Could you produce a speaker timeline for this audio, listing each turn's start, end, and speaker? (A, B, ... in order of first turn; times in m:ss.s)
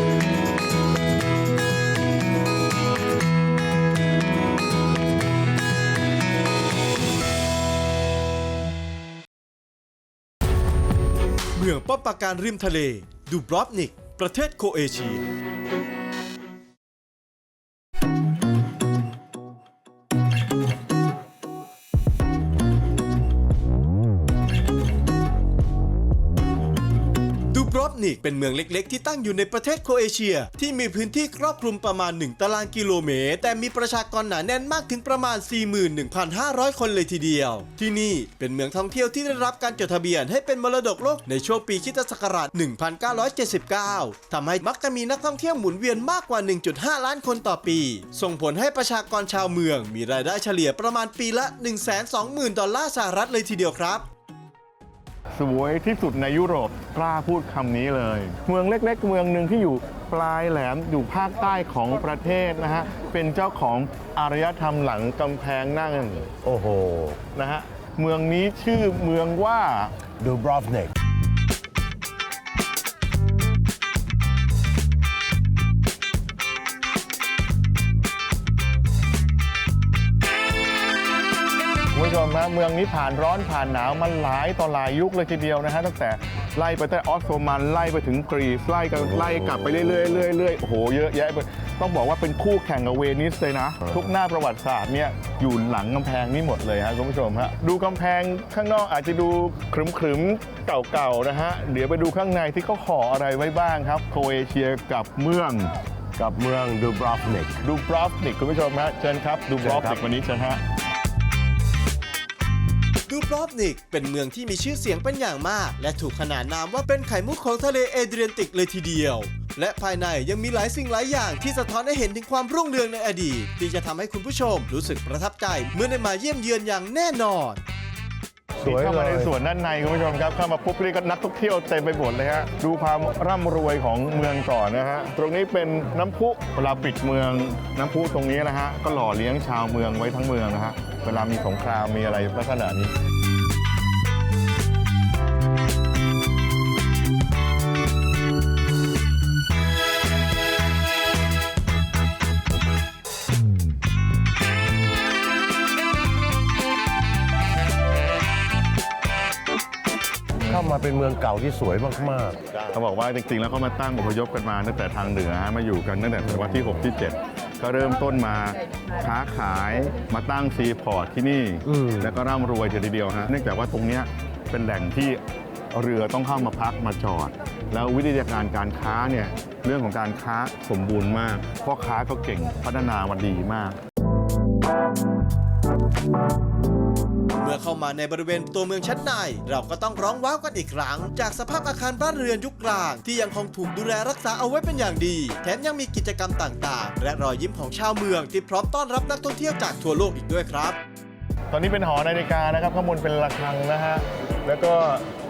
0:11.5-0:15.2 A
0:27.5-0:54.0 A
0:55.4-1:06.3 B
1:06.4-1:07.2 C
1:07.3-1:10.0 B
1:10.2-1:10.9 C
1:21.9-1:45.7 B
1:46.2-1:47.6 C
1:47.6-1:50.6 B
1:49.6-1:50.0 C
1:53.1-2:07.6 A
2:08.6-2:09.3 C
2:08.6-2:22.9 B
2:40.5-2:42.8 C
2:42.7-2:55.2 B
2:51.7-2:52.1 C
2:55.7-3:03.8 B
3:07.4-3:20.8 A
3:21.5-3:25.1 B